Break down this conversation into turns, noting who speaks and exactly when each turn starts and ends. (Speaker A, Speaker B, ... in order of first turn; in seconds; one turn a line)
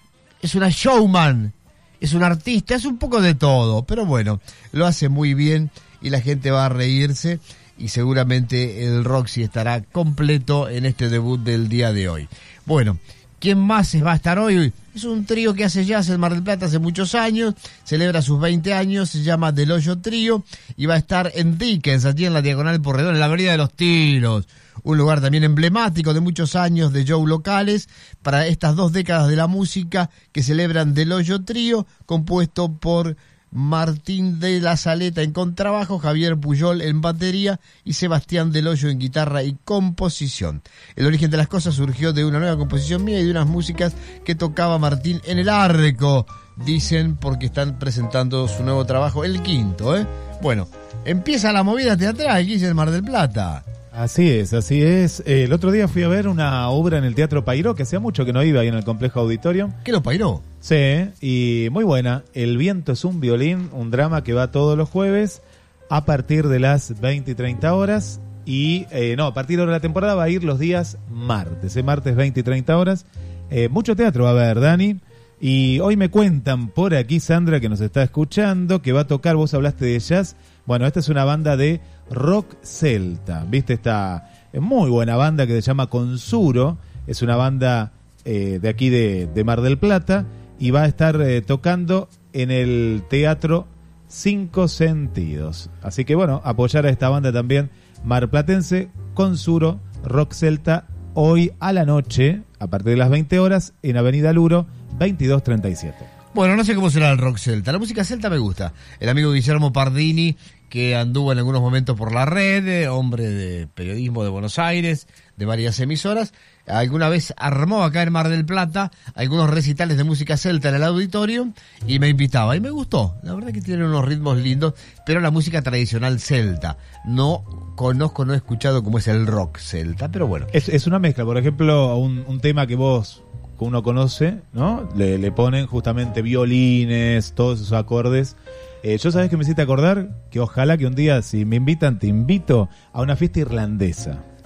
Speaker A: 0.4-53.7
Speaker B: 53.9-59.8
Speaker A: 59.8-60.4
Speaker B: 60.6-106.1
Speaker A: 106.3-130.5
Speaker B: 130.5-144.2